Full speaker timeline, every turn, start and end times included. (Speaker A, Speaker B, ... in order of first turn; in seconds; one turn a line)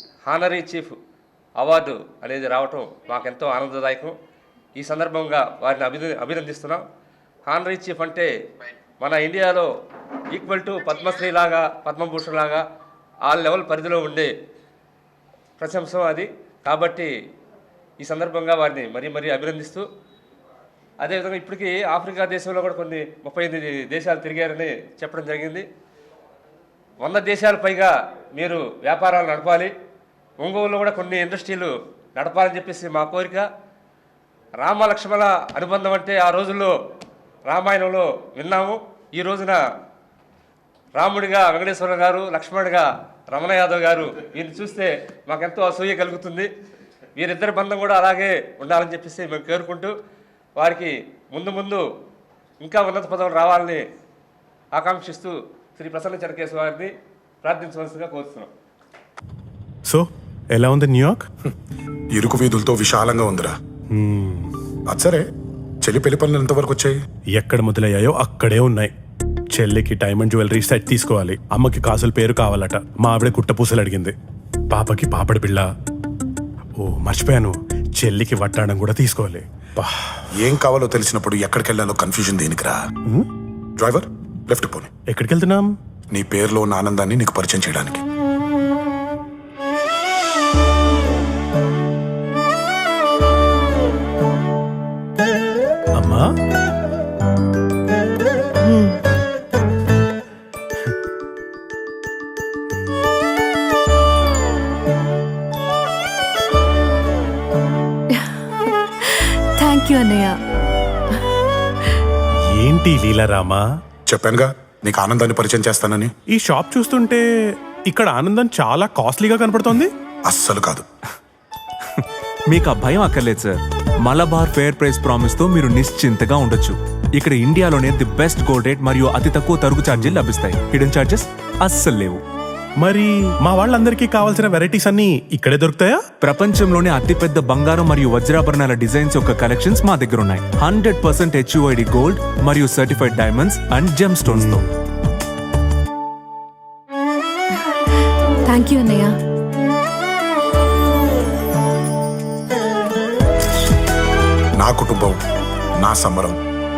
Speaker A: 0.3-1.0
Speaker A: 1.6-4.1
Speaker A: 4.8-6.8
Speaker A: 7.5-8.3
Speaker A: 9.0-9.7
Speaker A: 10.3-12.6
Speaker A: 13.3-14.3
Speaker A: 15.6-17.1
Speaker A: 18.0-19.9
Speaker A: 21.0-25.7
Speaker A: 27.0-29.7
Speaker A: 30.4-33.5
Speaker A: 34.6-36.7
Speaker A: 37.5-39.6
Speaker A: 41.0-46.5
Speaker A: 47.2-49.9
Speaker A: 50.6-51.8
Speaker A: 52.6-53.8
Speaker A: 54.8-56.9
Speaker A: 57.4-58.5
Speaker B: 60.6-61.2
Speaker C: 62.1-63.6
Speaker B: 64.0-64.5
Speaker C: 64.9-65.3
Speaker C: 65.8-67.0
Speaker B: 67.4-68.9
Speaker B: 69.6-74.1
Speaker B: 74.7-75.6
Speaker B: 76.8-79.9
Speaker C: 80.3-82.8
Speaker C: 83.8-84.9
Speaker B: 85.1-85.7
Speaker C: 86.1-88.0
Speaker D: 98.6-99.0
Speaker D: 109.2-110.4
Speaker B: 112.6-113.6
Speaker C: 114.1-116.1
Speaker B: 116.3-117.2
Speaker B: 117.9-119.9
Speaker C: 120.3-120.9
Speaker E: 122.0-132.2
Speaker B: 132.8-136.0
Speaker E: 136.2-144.7
Speaker C: 144.3-144.6
Speaker D: 148.4-149.2
Speaker C: 154.6-155.2
Speaker C: 155.8-156.4